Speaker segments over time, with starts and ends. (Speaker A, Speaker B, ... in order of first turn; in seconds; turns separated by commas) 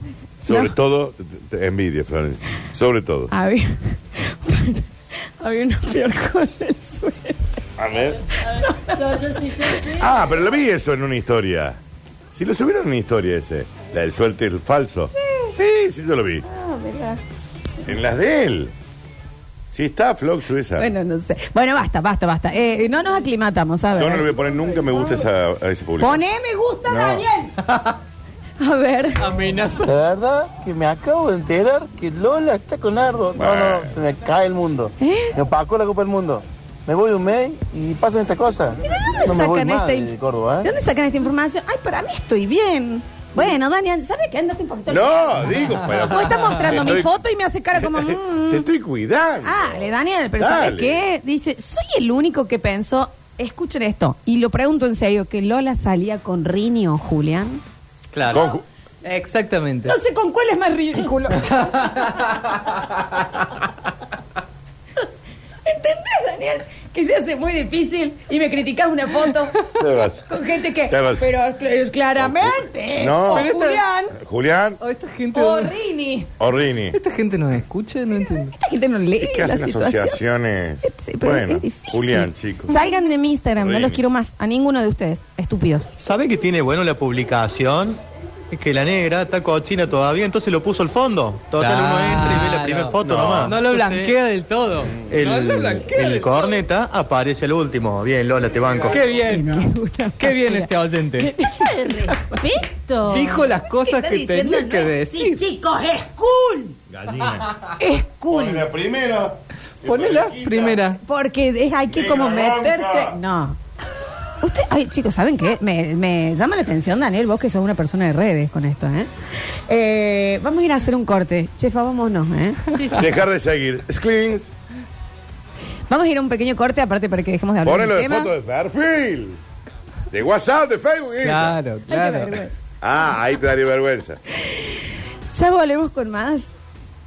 Speaker A: 0.4-3.3, Speaker B: 3.3-7.5, Speaker A: 7.8-8.2, Speaker C: 8.4-10.2, Speaker B: 8.6-9.9, Speaker A: 10.0-11.8, Speaker A: 12.3-16.4, Speaker B: 16.4-17.2, Speaker A: 17.9-18.7, Speaker A: 19.7-20.9, Speaker B: 20.8-24.3, Speaker A: 23.9-26.2, Speaker B: 26.0-27.5, Speaker A: 26.9-27.2, Speaker D: 27.7-27.9, Speaker B: 28.6-29.2, Speaker D: 29.2-29.9, Speaker E: 29.8-40.7, Speaker A: 33.4-33.9, Speaker B: 35.0-35.3, Speaker B: 38.8-40.1, Speaker B: 40.6-48.7, Speaker A: 44.9-47.2, Speaker D: 45.9-46.5, Speaker A: 47.7-51.0, Speaker B: 49.4-57.6, Speaker D: 58.1-60.0, Speaker A: 58.3-58.6, Speaker B: 59.9-62.2, Speaker D: 61.7-62.2, Speaker B: 65.6-69.7, Speaker A: 69.7-71.3, Speaker B: 70.3-74.1, Speaker A: 72.2-73.5, Speaker D: 73.3-73.8, Speaker A: 74.1-74.8, Speaker D: 74.8-75.7, Speaker B: 75.3-76.3, Speaker A: 76.4-77.0, Speaker D: 76.9-78.5, Speaker B: 78.5-80.2, Speaker A: 79.2-82.8, Speaker B: 80.8-85.9, Speaker A: 83.6-84.0, Speaker F: 86.0-94.2, Speaker D: 91.6-96.3, Speaker F: 95.0-99.0, Speaker D: 98.9-99.7, Speaker B: 99.0-102.5, Speaker D: 100.2-101.3, Speaker C: 101.5-103.3, Speaker D: 103.1-105.4, Speaker B: 103.1-106.8, Speaker A: 106.9-107.5, Speaker B: 107.8-108.6, Speaker A: 108.3-110.8, Speaker D: 109.8-111.0, Speaker B: 111.0-113.6, Speaker A: 111.9-113.2, Speaker B: 114.4-119.1, Speaker B: 119.7-122.6, Speaker C: 122.7-123.2, Speaker A: 122.9-124.5, Speaker B: 125.9-128.3, Speaker A: 127.6-129.4, Speaker A: 130.1-131.6, Speaker D: 131.2-132.4, Speaker B: 131.9-132.5, Speaker A: 132.8-134.2, Speaker B: 134.4-134.8, Speaker B: 135.3-136.5